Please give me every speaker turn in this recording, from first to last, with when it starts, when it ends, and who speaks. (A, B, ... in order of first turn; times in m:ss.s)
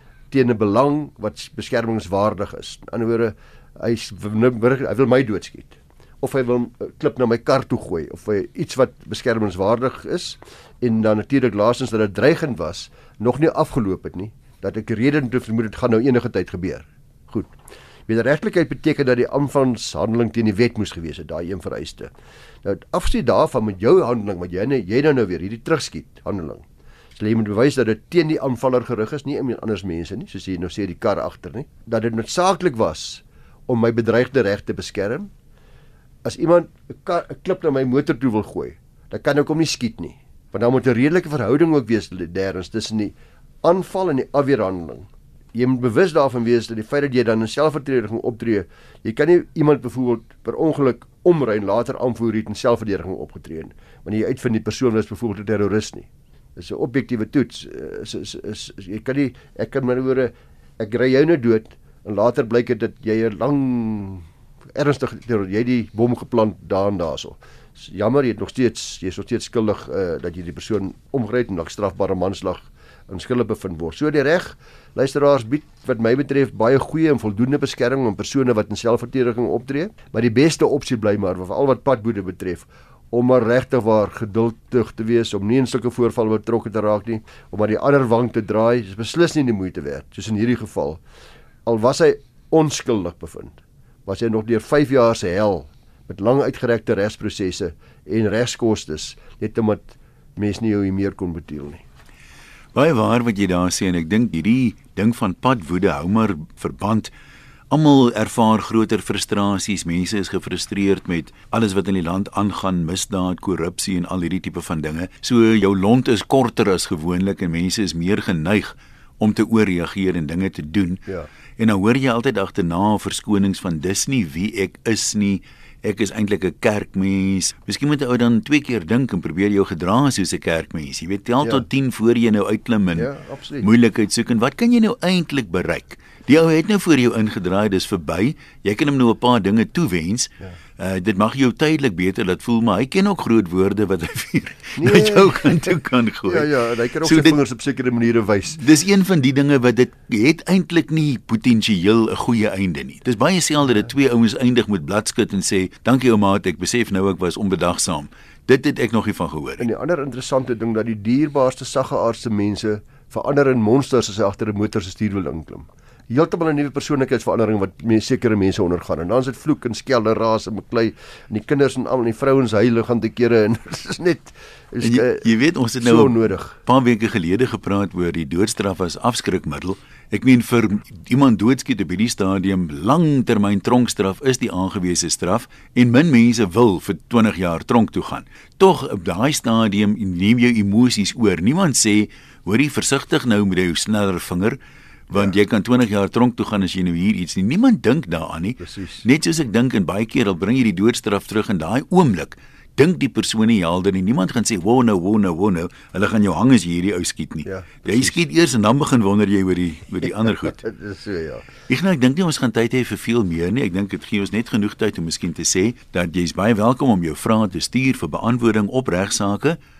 0:00.3-0:17.5 A
0:18.1-0:22.1 A
0:22.6-0:35.3 A
0:36.2-1:31.0 A
1:31.6-1:41.8 A
1:42.7-1:47.1 B
1:47.7-2:01.0 B
2:01.6-2:13.1 B
2:12.9-2:13.7 A
2:13.6-2:26.5 B
2:24.8-2:28.6 A
2:27.0-2:27.4 B
2:28.6-2:39.7 B
2:39.6-2:55.3 A
2:54.8-3:14.6 B
2:55.8-2:56.6 A
3:15.1-3:30.6 B
3:18.6-3:19.0 A
3:27.4-3:28.2 A
3:30.0-3:31.5 A
3:31.7-3:39.6 B